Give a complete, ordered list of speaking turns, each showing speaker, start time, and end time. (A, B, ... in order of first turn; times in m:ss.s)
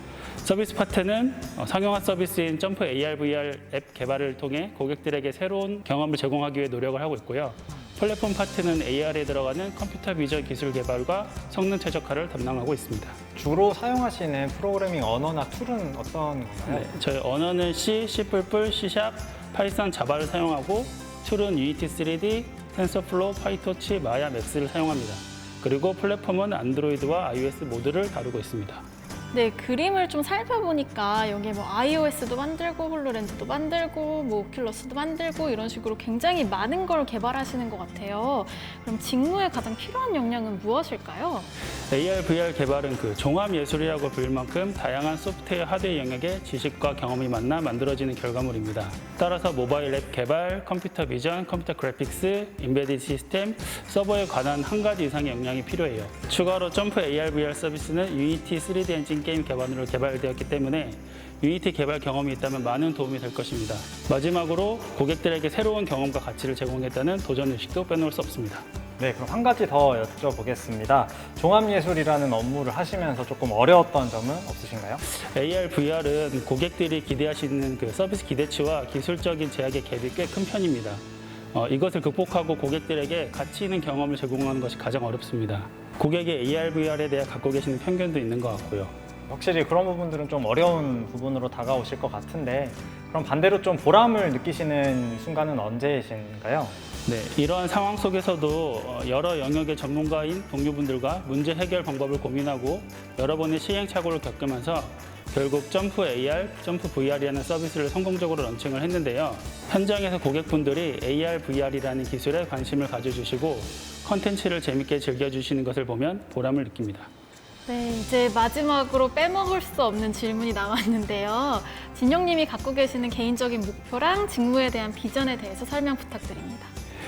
0:00.4-0:13.2 A
0:13.3-0:16.9 B
0:16.7-0:28.8 A
0:29.3-0:41.5 C
0:41.9-1:08.6 A
1:09.0-1:15.0 B
1:15.0-1:21.0 A
1:21.5-1:28.9 A
1:29.3-1:36.8 B
1:37.0-1:57.1 A
1:57.7-2:06.7 C